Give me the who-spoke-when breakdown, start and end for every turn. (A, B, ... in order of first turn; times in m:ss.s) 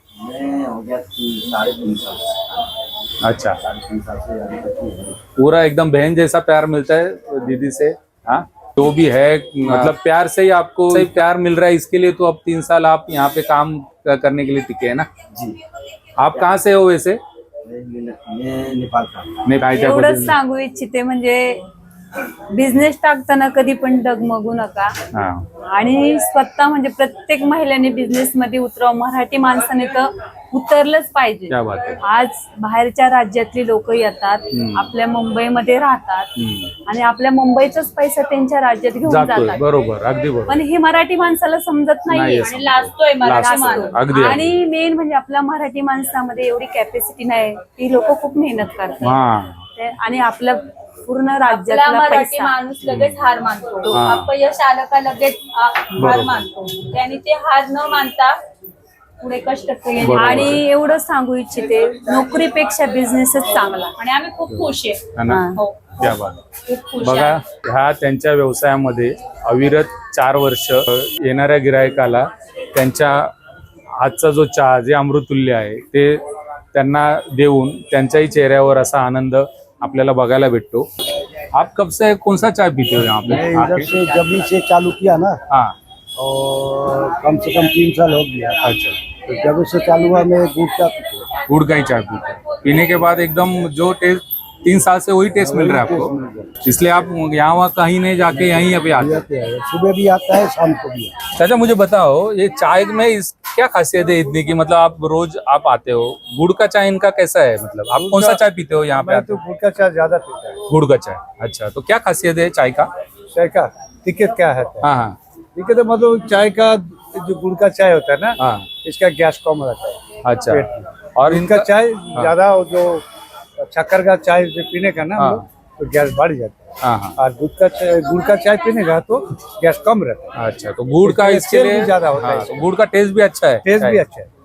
0:00.2-0:02.5 A
0:03.2-0:03.6 B
0:03.6-0:05.2 A
0:05.4-0:15.1 B
0:16.2-0:17.2 B
0:17.7-0:19.4 A
0:19.4-0:20.4 B
0:19.7-0:21.6 C
0:22.6-0:25.0 C
0:25.1-0:25.5 B
0:25.7-0:36.3 C
0:31.5-0:32.0 B
0:34.5-0:34.9 B
0:36.4-0:36.7 B
0:36.9-0:39.6 C
0:39.0-0:40.6 B
0:40.5-0:42.5 C
0:42.1-0:44.5 B
0:42.4-0:44.0 D
0:43.4-0:49.2 C
0:49.0-0:49.6 B
0:49.8-0:52.6 C
0:51.5-0:58.4 D
0:52.9-0:53.2 B
0:53.9-0:54.3 B
0:56.0-0:56.4 B
0:59.2-1:00.6 D
1:00.0-1:00.6 B
1:00.2-1:03.9 C
1:04.0-1:06.0 D
1:04.5-1:05.4 B
1:05.3-1:05.6 C
1:06.0-1:06.4 B
1:06.6-1:07.4 D
1:07.0-1:13.3 B
1:14.0-1:16.2 B
1:16.7-1:20.9 B
1:21.5-1:23.9 B
1:23.2-1:25.4 E
1:25.5-1:25.8 B
1:26.2-1:28.6 E
1:28.6-1:29.0 B
1:29.2-1:31.3 E
1:31.4-1:39.3 B
1:35.4-1:36.5 E
1:38.4-1:41.1 E
1:41.3-1:49.4 B
1:48.0-1:50.6 E
1:50.7-1:52.9 B
1:53.3-1:54.9 E
1:54.8-1:55.2 B
1:55.6-2:03.0 E
1:58.4-1:58.7 B
2:00.2-2:02.4 B
2:03.6-2:06.6 E
2:05.2-2:05.4 B
2:06.8-2:07.2 B
2:07.2-2:10.3 E
2:10.4-2:14.0 B
2:11.0-2:12.7 E
2:13.6-2:14.3 E